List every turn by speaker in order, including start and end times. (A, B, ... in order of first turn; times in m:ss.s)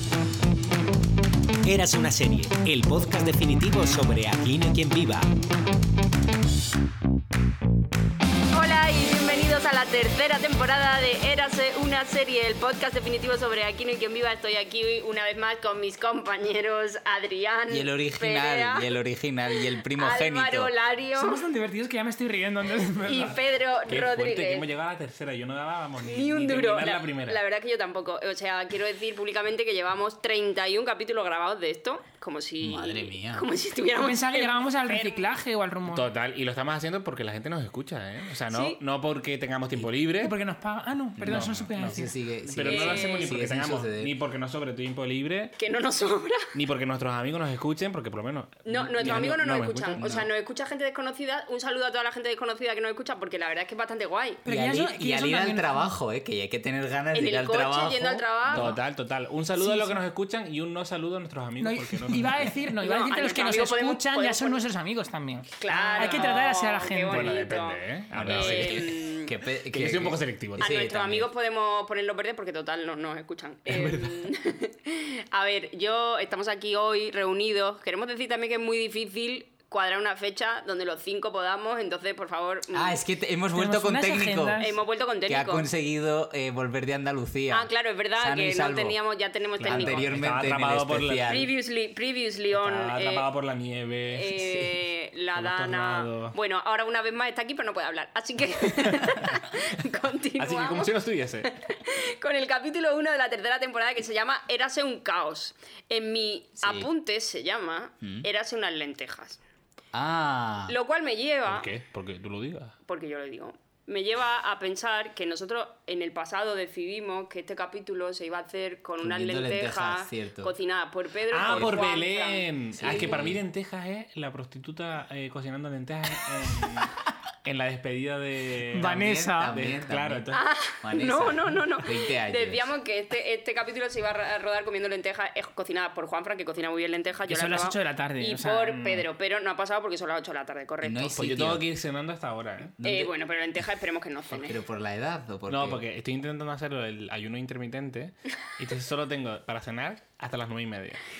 0:01.6-0:05.3 A
0:08.5-0:18.9 B
0:17.7-0:20.7 C
0:19.9-0:21.4 B
0:21.2-0:23.4 D
0:23.0-0:24.7 B
0:23.9-0:27.4 E
0:26.0-0:35.3 B
0:32.6-0:33.5 C
0:34.0-0:36.0 D
0:35.8-0:40.4 E
0:38.5-0:38.8 B
0:40.2-0:42.1 D
0:41.2-0:44.1 C
0:41.2-0:45.5 E
0:42.6-0:43.4 B
0:45.6-0:46.5 B
0:46.5-0:50.1 E
0:48.6-0:54.4 B
0:50.0-0:50.3 C
0:54.4-0:55.9 D
0:54.4-0:58.8 C
0:57.1-0:58.8 B
0:58.5-1:02.6 E
0:59.6-1:00.0 D
1:01.6-1:07.4 D
1:02.8-1:04.6 B
1:05.6-1:09.3 B
1:07.1-1:09.1 E
1:08.1-1:11.3 C
1:09.7-1:10.8 E
1:10.6-1:23.0 B
1:13.7-1:14.3 C
1:22.7-1:24.6 C
1:23.5-1:24.7 D
1:24.6-1:25.7 B
1:25.3-1:29.0 C
1:27.5-1:30.1 B
1:29.6-1:31.4 E
1:29.6-1:31.5 C
1:31.3-1:33.3 B
1:32.5-1:34.3 E
1:34.1-1:49.4 B
1:34.4-1:34.7 C
1:35.3-1:36.4 E
1:40.4-1:41.5 E
1:46.6-1:46.9 C
1:48.0-1:48.3 C
1:49.9-1:50.8 C
1:50.7-1:51.7 B
1:51.5-1:52.7 E
1:52.8-2:03.3 B
1:59.0-2:00.5 C
2:01.3-2:10.4 E
2:01.4-2:01.8 C
2:02.8-2:03.4 C
2:08.7-2:09.5 D
2:08.8-2:12.6 C
2:10.3-2:21.5 B
2:17.3-2:19.0 D
2:20.8-2:21.6 C
2:21.2-2:22.7 E
2:22.8-2:23.1 C
2:22.8-2:24.6 B
2:24.3-2:25.8 C
2:25.5-2:31.0 E